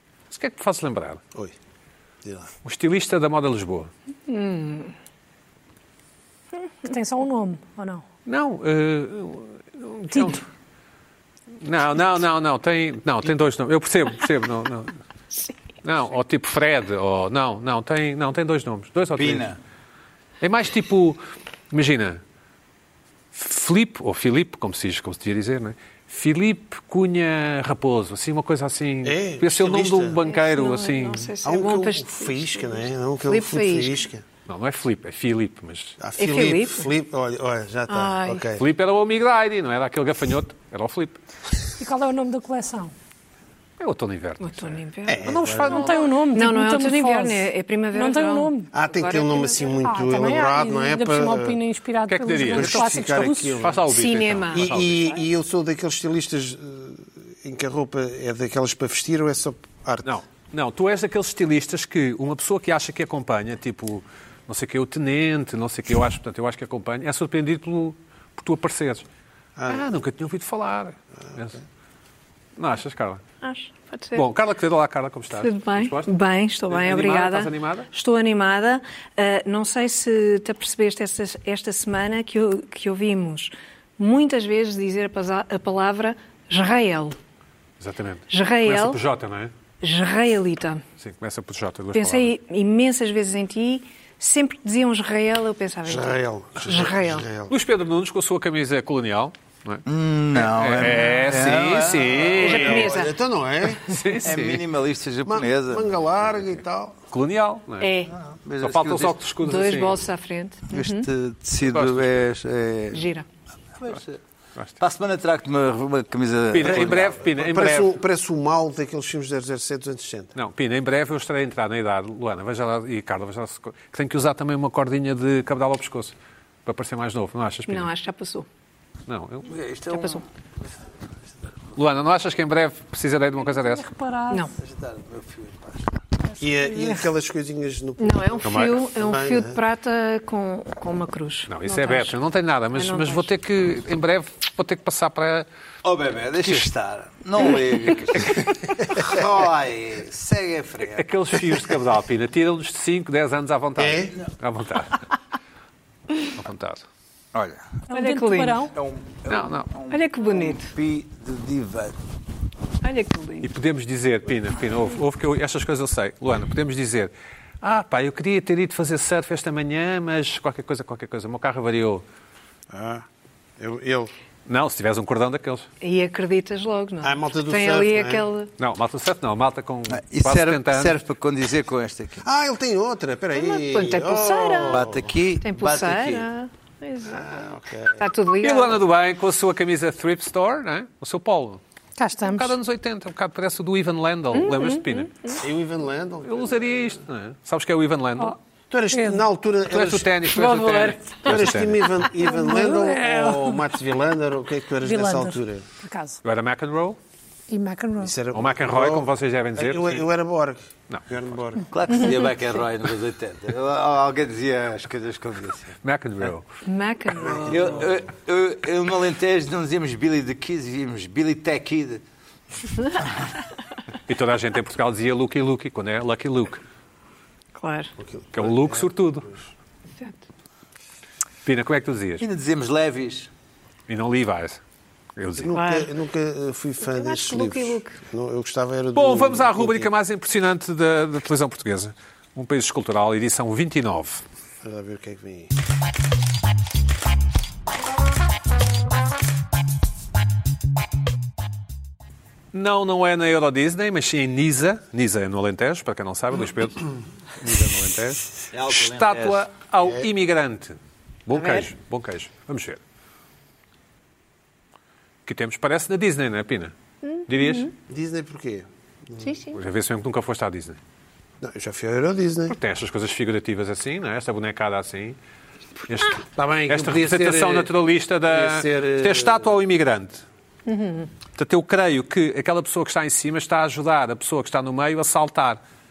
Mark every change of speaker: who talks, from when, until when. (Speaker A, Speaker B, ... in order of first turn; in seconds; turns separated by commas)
Speaker A: 0.3-1.2, Speaker A: 2.6-3.9, Speaker B: 4.3-4.9, Speaker C: 6.8-8.0, Speaker A: 8.2-10.4, Speaker A: 11.6-14.9, Speaker A: 15.8-19.5, Speaker D: 19.1-19.6, Speaker A: 20.4-21.2, Speaker A: 21.7-22.2, Speaker A: 23.3-31.3, Speaker E: 29.0-30.2, Speaker B: 30.2-34.0, Speaker E: 31.4-34.2, Speaker A: 34.5-36.0, Speaker E: 36.0-38.6, Speaker B: 36.2-36.9, Speaker B: 37.9-38.5, Speaker A: 38.6-41.2, Speaker C: 41.8-42.9, Speaker A: 43.8-46.0, Speaker B: 44.4-49.7, Speaker E: 45.0-45.8, Speaker C: 45.6-48.7, Speaker E: 48.7-51.6, Speaker C: 49.8-53.6, Speaker A: 52.1-55.1, Speaker E: 52.5-53.9, Speaker B: 53.9-54.6, Speaker E: 54.5-60.1, Speaker A: 60.0-69.0, Speaker E: 69.5-69.8, Speaker A: 69.7-71.6, Speaker A: 72.6-73.2, Speaker B: 73.4-74.2, Speaker A: 74.1-76.1, Speaker B: 75.4-87.2, Speaker A: 76.7-77.9, Speaker A: 87.8-89.5, Speaker B: 88.3-89.0, Speaker B: 89.8-90.8, Speaker A: 91.0-92.3, Speaker B: 91.9-97.3, Speaker E: 95.8-97.5, Speaker A: 97.5-102.9, Speaker D: 99.8-102.5, Speaker E: 102.3-104.0, Speaker B: 102.4-103.2, Speaker A: 103.7-104.6, Speaker D: 104.2-105.9, Speaker E: 105.2-107.0, Speaker A: 107.1-107.9, Speaker B: 107.8-108.1, Speaker D: 108.3-109.2, Speaker A: 108.6-110.0, Speaker B: 109.4-111.1, Speaker D: 110.7-113.0, Speaker A: 111.6-112.3, Speaker B: 112.9-113.2, Speaker D: 113.8-114.2, Speaker D: 114.8-117.2, Speaker A: 116.5-117.9, Speaker E: 116.6-120.3, Speaker A: 120.3-126.1, Speaker A: 126.7-127.9, Speaker B: 127.7-128.4, Speaker A: 129.1-129.5, Speaker D: 129.5-130.2, Speaker B: 129.9-130.2, Speaker A: 131.7-133.9, Speaker C: 133.5-134.5, Speaker D: 134.6-136.0, Speaker E: 136.4-139.6, Speaker B: 138.0-142.2, Speaker A: 138.4-138.8, Speaker A: 141.5-145.4, Speaker B: 142.7-143.3, Speaker D: 145.8-151.5, Speaker A: 146.4-146.7, Speaker A: 150.9-155.0, Speaker E: 153.8-154.1, Speaker A: 156.3-156.8, Speaker D: 157.3-157.8, Speaker C: 157.9-158.7, Speaker B: 157.9-158.7, Speaker D: 158.7-161.9, Speaker A: 159.3-159.7, Speaker B: 159.9-160.7, Speaker B: 162.8-163.5, Speaker A: 163.4-172.0, Speaker E: 172.7-173.1, Speaker E: 173.6-174.1, Speaker A: 174.5-175.7, Speaker B: 175.8-178.5, Speaker E: 177.0-178.2, Speaker A: 178.6-181.0, Speaker D: 179.9-182.2, Speaker E: 182.2-185.2, Speaker B: 183.3-184.8, Speaker D: 184.7-186.2, Speaker B: 185.4-187.3, Speaker E: 187.0-188.1, Speaker B: 188.0-188.8, Speaker A: 188.4-191.6, Speaker C: 192.0-192.6, Speaker A: 192.3-195.1, Speaker B: 194.3-195.4, Speaker E: 195.4-196.9, Speaker A: 196.2-198.4, Speaker E: 198.7-200.1, Speaker C: 198.9-199.2, Speaker A: 199.7-202.0, Speaker B: 200.3-201.6, Speaker E: 201.2-205.7, Speaker C: 202.2-203.6, Speaker C: 204.8-206.2, Speaker A: 206.2-207.0, Speaker C: 207.5-208.1, Speaker E: 208.0-211.7, Speaker A: 208.3-210.1, Speaker D: 211.7-215.8, Speaker A: 215.8-216.5, Speaker B: 216.7-217.6, Speaker E: 217.2-217.8, Speaker D: 217.5-222.0, Speaker A: 224.1-226.6, Speaker B: 227.6-227.9, Speaker E: 228.0-229.4, Speaker A: 228.3-229.3, Speaker A: 231.4-232.2, Speaker D: 232.2-233.3, Speaker A: 233.9-234.6, Speaker A: 235.2-235.6, Speaker E: 235.4-239.9, Speaker B: 235.5-235.9, Speaker B: 236.8-238.0, Speaker A: 238.9-244.2, Speaker E: 244.6-245.5, Speaker A: 252.5-262.8, Speaker D: 258.5-259.4, Speaker E: 259.8-260.1, Speaker B: 261.3-261.7, Speaker A: 265.2-266.7, Speaker B: 267.0-267.7, Speaker A: 267.3-267.7, Speaker E: 267.9-269.3, Speaker B: 269.2-269.6, Speaker A: 269.5-270.8, Speaker E: 271.4-272.5, Speaker A: 272.5-275.2, Speaker A: 275.9-280.2, Speaker E: 276.2-277.7, Speaker E: 278.3-279.5, Speaker B: 280.6-281.1, Speaker A: 281.4-285.6